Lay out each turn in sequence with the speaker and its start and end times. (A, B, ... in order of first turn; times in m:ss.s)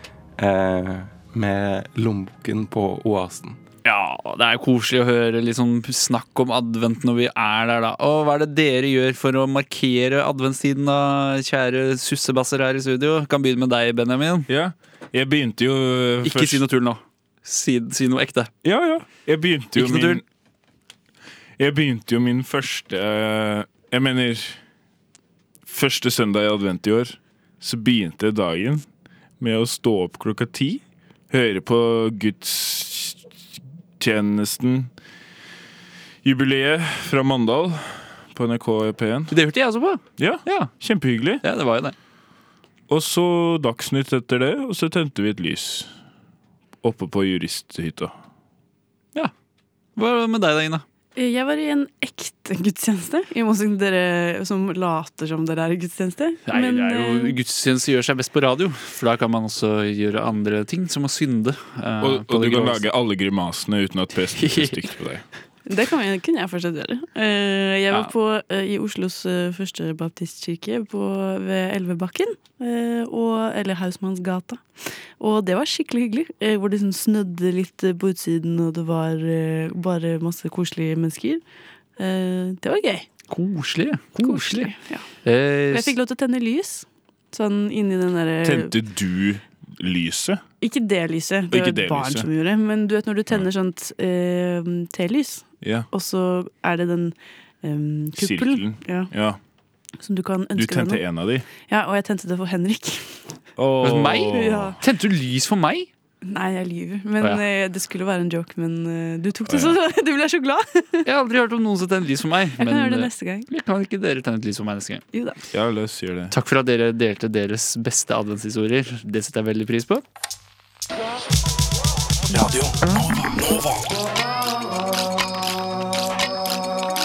0:00.4-0:03.6 A
0:03.8-0:14.5 B
0:14.5-0:16.6 C
0:16.2-0:18.5 B
0:18.6-0:20.2 C
0:19.7-0:20.2 B
0:21.6-0:24.6 C
0:25.6-0:28.9 C
0:29.4-0:33.2 C
0:34.0-0:34.9 C
0:36.2-0:39.4 C
0:39.3-0:40.7 B
0:40.2-0:41.4 C
0:41.4-0:42.0 B
0:42.9-0:45.9 C
0:46.8-0:48.2 C
0:50.0-0:50.8 B
0:51.2-0:57.4 D
0:56.5-1:02.8 B
1:02.0-1:05.2 C
1:04.4-1:04.8 B
1:05.7-1:21.4 D
1:22.0-1:23.1 D
1:23.3-1:26.0 B
1:24.2-1:25.1 D
1:25.7-1:28.8 D
1:28.4-1:30.4 C
1:30.6-1:39.1 D
1:31.5-1:32.3 C
1:35.6-1:35.9 C
1:38.1-1:39.4 C
1:40.0-1:43.2 D
1:40.5-1:41.5 C
1:43.6-1:44.8 C
1:43.8-1:45.9 B
1:44.1-1:44.8 D
1:46.2-1:51.0 D
1:47.2-1:47.4 B
1:49.5-1:49.8 C
1:51.0-1:55.0 B
1:52.6-1:53.5 D
1:55.1-1:55.4 D
1:55.5-1:56.3 C
1:56.3-2:00.0 B
2:02.4-2:03.6 C